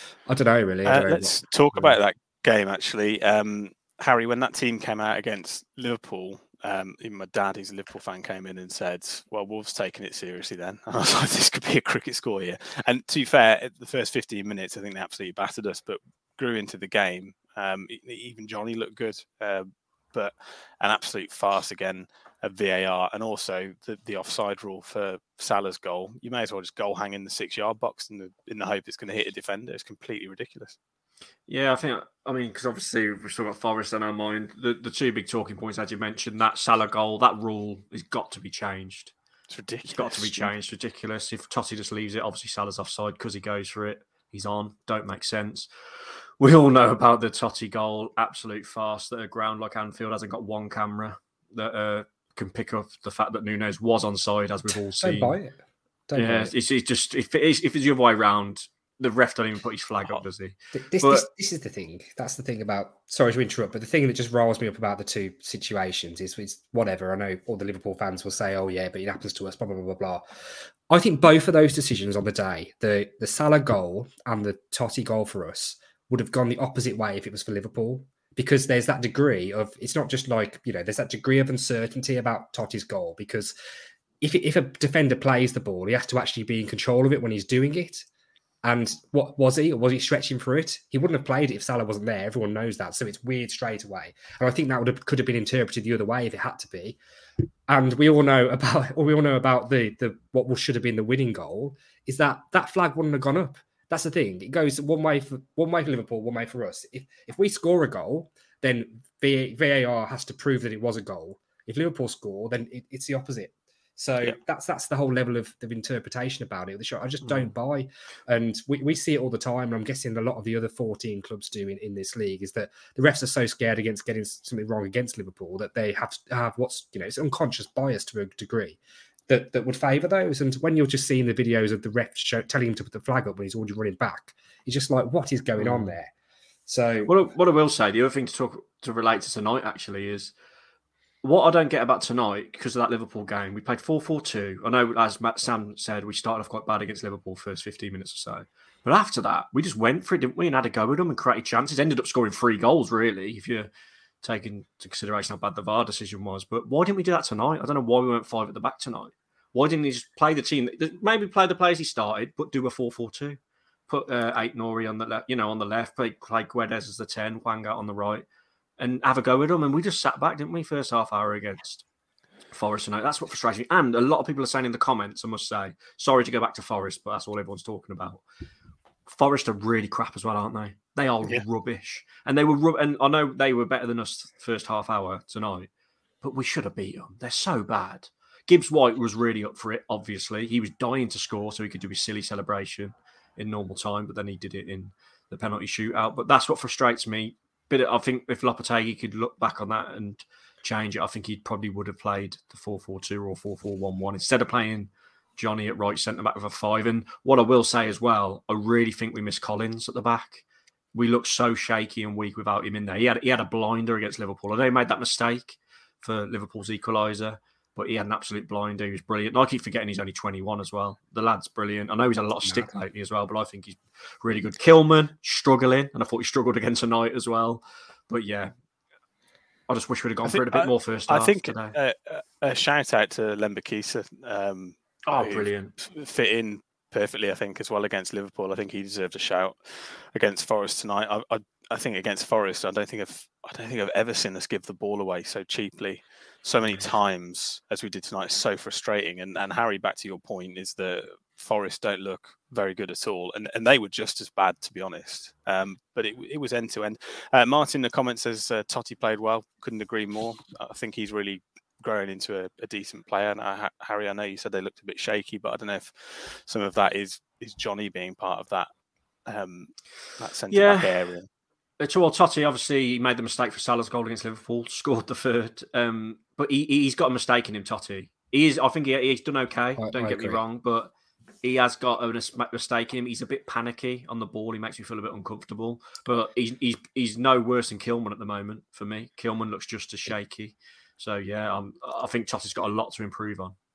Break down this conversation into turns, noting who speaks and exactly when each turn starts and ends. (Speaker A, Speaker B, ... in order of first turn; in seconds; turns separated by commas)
Speaker A: 0.3-2.0, Speaker B: 0.8-30.8, Speaker C: 31.5-39.1, Speaker B: 39.5-40.5, Speaker C: 39.8-45.7, Speaker C: 46.4-55.4, Speaker A: 54.7-55.5, Speaker A: 56.1-56.5, Speaker C: 56.1-61.3, Speaker A: 60.7-70.2, Speaker A: 70.9-83.5, Speaker A: 84.2-88.1, Speaker A: 88.6-97.0, Speaker A: 97.7-136.1, Speaker C: 117.2-117.5, Speaker C: 135.6-135.9, Speaker A: 136.7-137.1, Speaker C: 137.1-140.3, Speaker C: 141.2-153.7, Speaker C: 154.2-168.2, Speaker C: 168.8-171.8, Speaker C: 172.5-178.2, Speaker C: 179.1-185.7, Speaker C: 186.2-228.5, Speaker C: 229.7-231.8, Speaker B: 230.2-268.7, Speaker C: 235.1-235.7, Speaker B: 269.2-271.3, Speaker C: 270.5-270.9, Speaker C: 271.8-280.9, Speaker A: 279.8-280.4, Speaker C: 281.4-293.5